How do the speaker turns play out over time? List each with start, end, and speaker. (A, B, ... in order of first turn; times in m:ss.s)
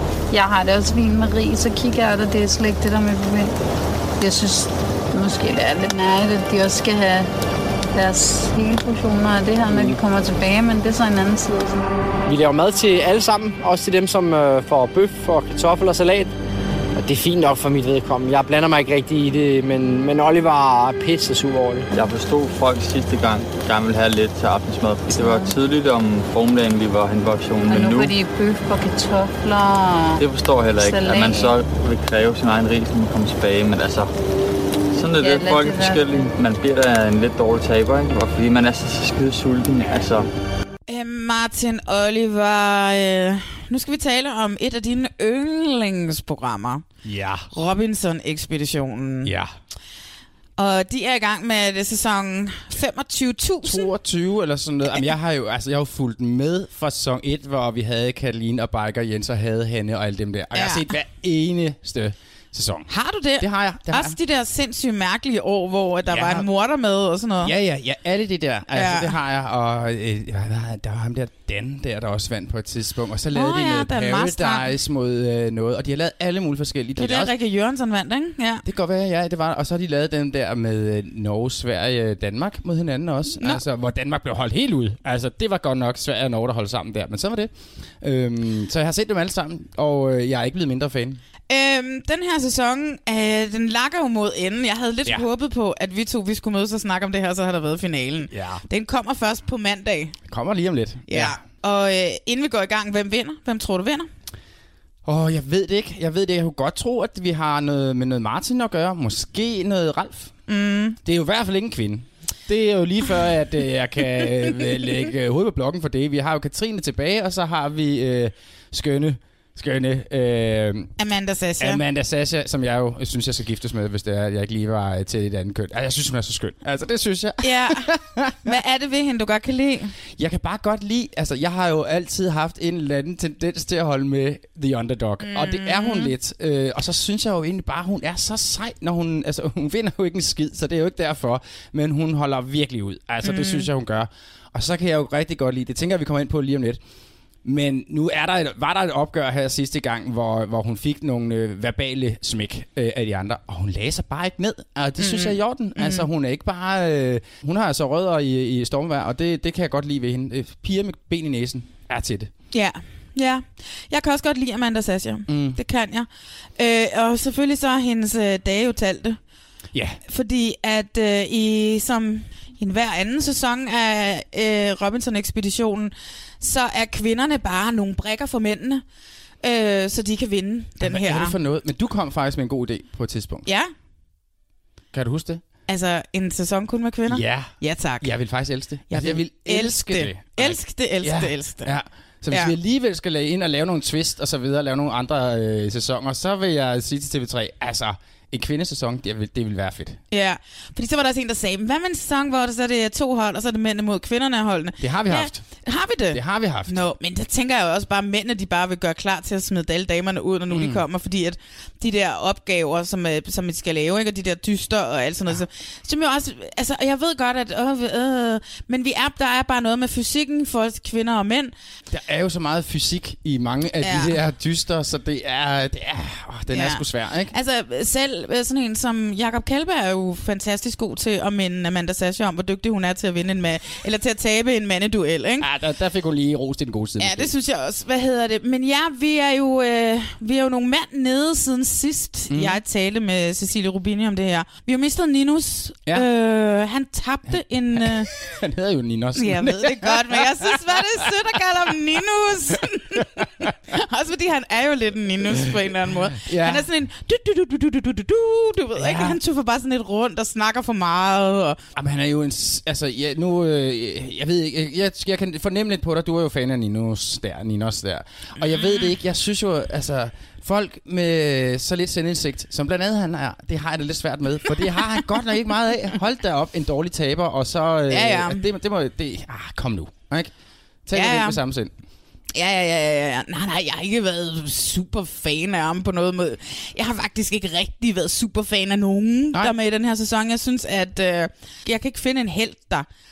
0:00.3-0:03.6 A
0:04.2-0:07.3 A
0:07.9-0:11.8 A
0:09.7-0:10.0 B
0:12.2-0:16.3 B
0:17.0-0:21.9 B
0:21.9-0:28.2 C
0:25.1-0:25.5 A
0:27.7-0:30.2 A
0:30.2-0:34.1 C
0:30.8-0:31.6 A
0:35.0-0:40.3 C
0:35.2-0:36.0 A
0:40.9-0:46.8 D
0:47.0-0:47.5 E
0:47.5-0:49.3 D
0:49.2-0:49.6 E
0:50.6-0:53.9 D
0:53.6-1:02.9 E
1:00.5-1:00.9 D
1:02.9-1:07.5 D
1:03.4-1:04.2 E
1:06.1-1:06.5 E
1:07.4-1:17.3 E
1:08.7-1:09.1 D
1:13.3-1:14.7 D
1:17.0-1:18.6 D
1:18.6-1:31.2 E
1:31.5-1:40.2 D
1:38.3-1:38.6 E
1:40.3-1:41.4 E
1:41.1-1:44.1 D
1:45.0-1:50.3 E
1:50.5-1:51.0 D
1:51.0-2:00.9 E
2:01.0-2:01.8 D
2:01.6-2:08.6 E
2:07.4-2:07.9 D
2:08.4-2:09.9 D
2:10.2-2:26.8 E
2:15.2-2:16.1 D
2:23.2-2:23.7 D
2:27.4-2:42.3 E
2:35.0-2:36.1 D
2:42.5-2:49.2 D
2:45.3-2:45.6 E
2:49.7-2:50.0 E
2:50.1-2:58.8 D
2:59.4-3:01.4 D
3:00.8-3:03.5 E
3:03.4-3:03.7 D
3:04.9-3:05.4 E
3:05.7-3:08.1 D
3:07.1-3:20.0 E
3:08.9-3:11.8 D
3:20.1-3:41.5 D
3:24.8-3:25.4 E
3:26.1-3:26.8 E
3:30.5-3:30.8 E
3:41.9-3:47.3 E
3:43.8-3:44.2 D
3:46.5-3:55.5 D
3:55.4-3:57.3 E
3:57.0-4:08.1 D
4:02.3-4:02.6 E
4:07.8-4:11.1 E
4:09.2-4:21.6 D
4:16.2-4:16.7 E
4:18.8-4:19.2 E
4:21.7-4:40.3 E
4:28.4-4:28.9 D
4:37.9-4:38.5 D
4:40.9-4:41.7 E
4:40.9-4:41.4 D
4:42.3-4:52.9 D